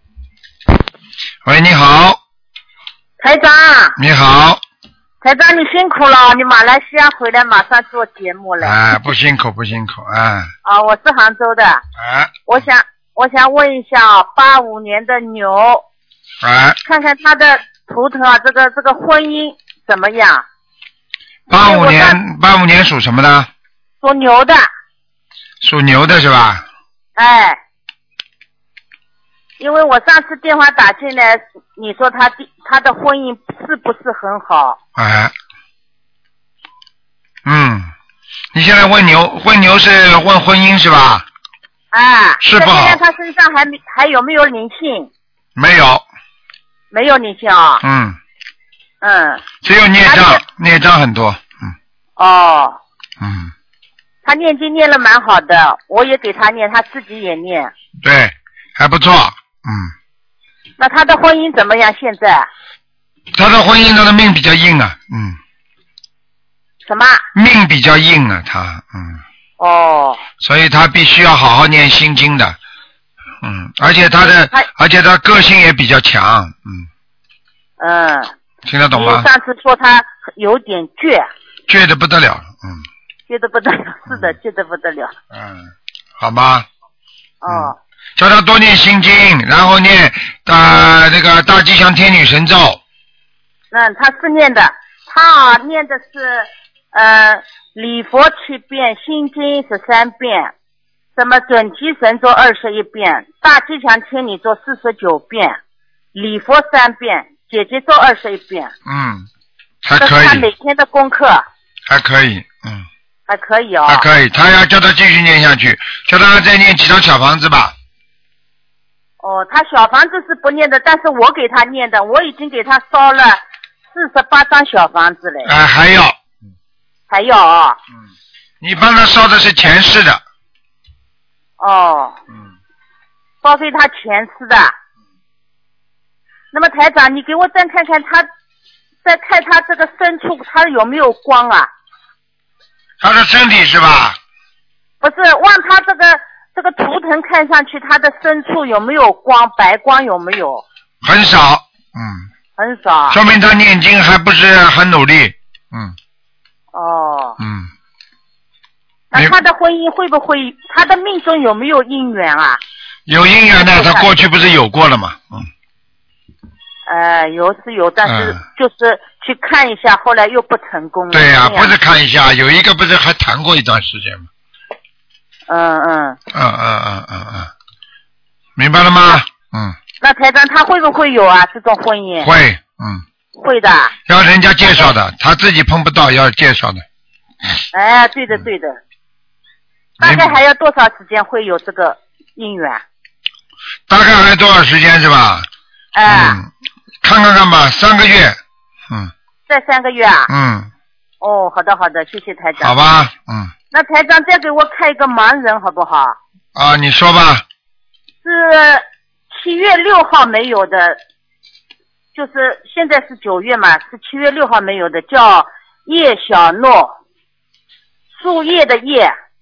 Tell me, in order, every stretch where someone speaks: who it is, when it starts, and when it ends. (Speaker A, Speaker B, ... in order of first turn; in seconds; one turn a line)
Speaker A: 1.4-2.2
Speaker B: 3.2-4.0
Speaker A: 4.0-4.6
Speaker B: 5.2-8.8
Speaker A: 8.6-10.5
Speaker B: 10.6-11.8
Speaker A: 12.0-12.3
Speaker B: 12.5-15.8
Speaker A: 16.4-16.8
Speaker B: 16.8-20.4
Speaker A: 21.5-23.5
Speaker B: 21.5-22.2
Speaker B: 24.0-24.7
Speaker A: 25.6-26.6
Speaker B: 27.2-27.6
Speaker B: 29.6-34.8
Speaker A: 35.0-35.3
Speaker A: 37.4-37.9
Speaker A: 38.5-41.2
Speaker B: 41.9-45.1
Speaker A: 42.4-43.0
Speaker A: 45.5-46.0
Speaker B: 46.9-47.8
Speaker A: 47.8-48.2
Speaker B: 49.0-49.4
Speaker A: 49.6-51.7
Speaker B: 50.0-50.4
Speaker B: 52.2-52.8
Speaker A: 53.2-53.5
Speaker B: 54.2-57.7
Speaker A: 58.0-59.9
Speaker B: 60.8-62.5
Speaker A: 63.3-65.4
Speaker B: 66.8-67.2
Speaker A: 67.3-69.2
Speaker B: 69.6-70.2
Speaker A: 70.4-72.5
Speaker A: 73.4-76.9
Speaker B: 77.8-78.3
Speaker A: 78.6-79.3
Speaker B: 78.9-81.3
Speaker A: 81.7-82.8
Speaker B: 83.3-85.1
Speaker A: 85.3-86.7
Speaker B: 87.4-87.8
Speaker A: 87.5-92.8
Speaker B: 93.7-100.5
Speaker B: 101.2-105.6
Speaker B: 106.1-108.7
Speaker A: 108.8-109.3
Speaker A: 109.8-110.4
Speaker B: 110.0-111.4
Speaker A: 111.9-112.8
Speaker B: 113.3-114.0
Speaker A: 113.9-117.7
Speaker B: 119.2-123.4
Speaker B: 123.9-125.5
Speaker A: 125.4-126.2
Speaker B: 127.1-127.8
Speaker A: 128.6-130.2
Speaker B: 131.6-132.2
Speaker B: 133.4-134.7
Speaker B: 136.5-138.3
Speaker B: 139.0-141.7
Speaker A: 143.0-144.2
Speaker B: 145.0-150.6
Speaker A: 151.0-152.2
Speaker B: 152.6-153.2
Speaker A: 153.1-155.9
Speaker B: 156.7-157.4
Speaker A: 157.4-157.7
Speaker B: 159.1-162.6
Speaker A: 163.1-165.5
Speaker B: 163.6-164.1
Speaker B: 166.9-171.7
Speaker A: 168.0-168.4
Speaker A: 171.1-174.3
Speaker B: 175.5-176.2
Speaker A: 176.3-177.5
Speaker A: 178.6-179.8
Speaker B: 180.0-182.3
Speaker A: 182.2-183.0
Speaker B: 183.4-183.9
Speaker A: 184.1-186.8
Speaker B: 187.7-188.8
Speaker A: 190.0-190.3
Speaker B: 190.0-192.8
Speaker A: 193.9-195.5
Speaker B: 195.9-196.4
Speaker A: 196.1-196.5
Speaker A: 197.0-198.4
Speaker B: 199.5-200.3
Speaker A: 200.3-200.7
Speaker B: 201.2-202.8
Speaker A: 202.6-203.5
Speaker B: 203.7-206.2
Speaker A: 206.5-207.4
Speaker B: 208.2-211.0
Speaker B: 212.1-216.9
Speaker B: 218.2-219.1